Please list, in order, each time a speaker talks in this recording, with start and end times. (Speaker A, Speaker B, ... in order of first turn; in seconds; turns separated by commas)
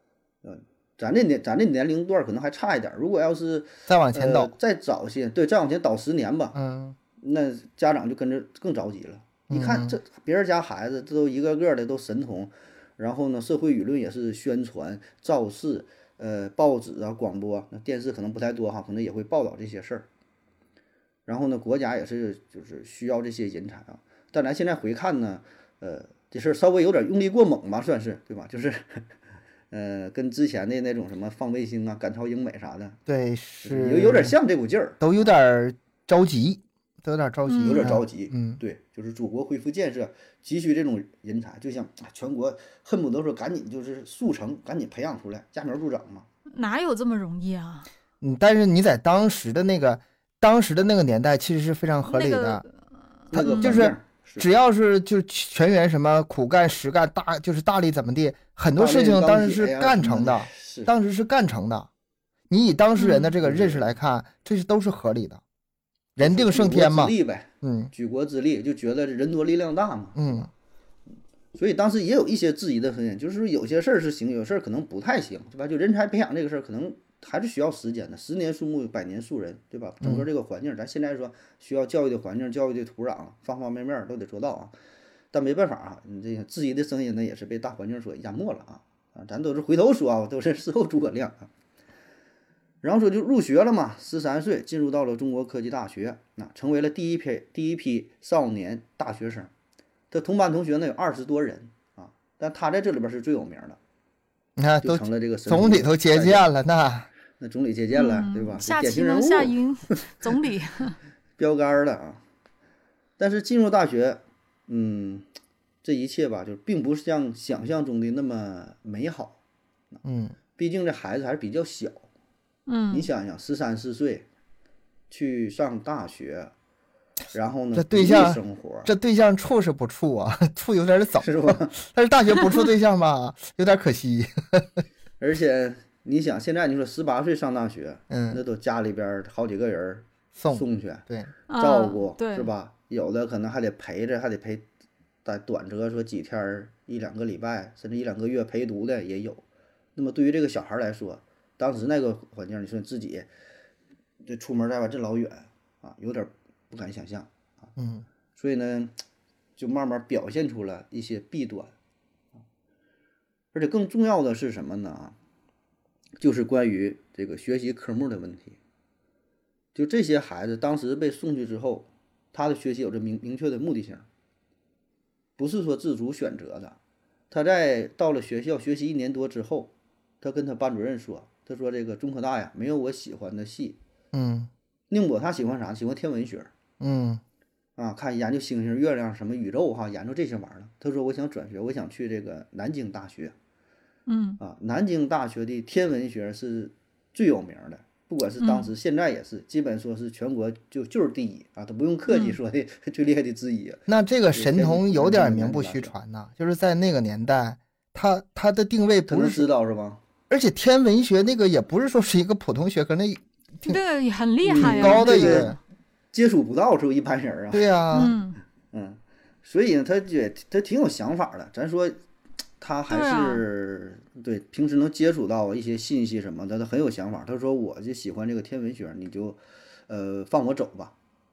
Speaker A: 0.4-6.6, Speaker B: 3.9-4.5, Speaker B: 6.5-7.0, Speaker A: 7.2-20.1, Speaker B: 9.5-10.0, Speaker A: 21.3-29.0, Speaker A: 29.7-33.0, Speaker B: 33.1-34.4, Speaker A: 33.6-35.2, Speaker B: 35.0-38.6, Speaker C: 37.5-38.0, Speaker A: 37.6-46.3, Speaker C: 46.5-47.9, Speaker B: 48.2-52.6, Speaker C: 52.0-52.7, Speaker C: 53.3-53.8, Speaker A: 53.3-54.5, Speaker B: 53.3-61.9, Speaker A: 58.8-60.9, Speaker B: 62.5-65.4, Speaker C: 63.0-63.4, Speaker A: 63.4-63.9, Speaker B: 66.2-67.9, Speaker A: 66.2-70.5, Speaker B: 70.2-70.5, Speaker A: 71.5-84.7, Speaker A: 85.3-91.5, Speaker A: 92.8-99.5, Speaker A: 100.1-103.8, Speaker B: 104.6-107.1, Speaker A: 104.8-106.5, Speaker A: 107.4-109.6, Speaker C: 107.9-111.0, Speaker A: 111.4-112.2, Speaker A: 113.2-115.3, Speaker A: 115.8-119.4, Speaker B: 120.0-120.4, Speaker A: 120.6-122.1, Speaker C: 122.7-123.1, Speaker A: 122.9-124.2, Speaker A: 125.1-126.5, Speaker A: 127.3-128.9, Speaker B: 127.8-134.8, Speaker A: 131.2-131.8, Speaker A: 135.2-141.1, Speaker B: 138.1-138.4, Speaker B: 140.3-141.3, Speaker C: 141.5-142.5, Speaker A: 141.6-144.7, Speaker A: 145.2-149.4, Speaker A: 150.0-153.3, Speaker A: 154.2-157.3, Speaker B: 157.8-158.1, Speaker A: 158.3-158.9, Speaker A: 159.6-161.7, Speaker A: 163.5-165.2, Speaker A: 166.2-168.6, Speaker A: 169.7-174.1, Speaker A: 175.4-176.8, Speaker A: 177.3-183.8, Speaker B: 184.1-184.5, Speaker A: 184.9-186.5, Speaker B: 186.8-187.2, Speaker A: 187.8-193.3, Speaker C: 194.1-194.4, Speaker A: 194.4-205.9, Speaker C: 198.4-198.7, Speaker C: 202.1-202.4, Speaker B: 203.9-209.5, Speaker A: 209.1-210.0, Speaker B: 210.3-213.8, Speaker C: 213.7-215.6, Speaker A: 214.4-215.5, Speaker B: 214.5-215.6, Speaker A: 216.1-218.1, Speaker B: 217.5-218.2, Speaker C: 217.9-218.4, Speaker A: 218.7-222.0, Speaker A: 222.6-230.9, Speaker C: 222.9-223.4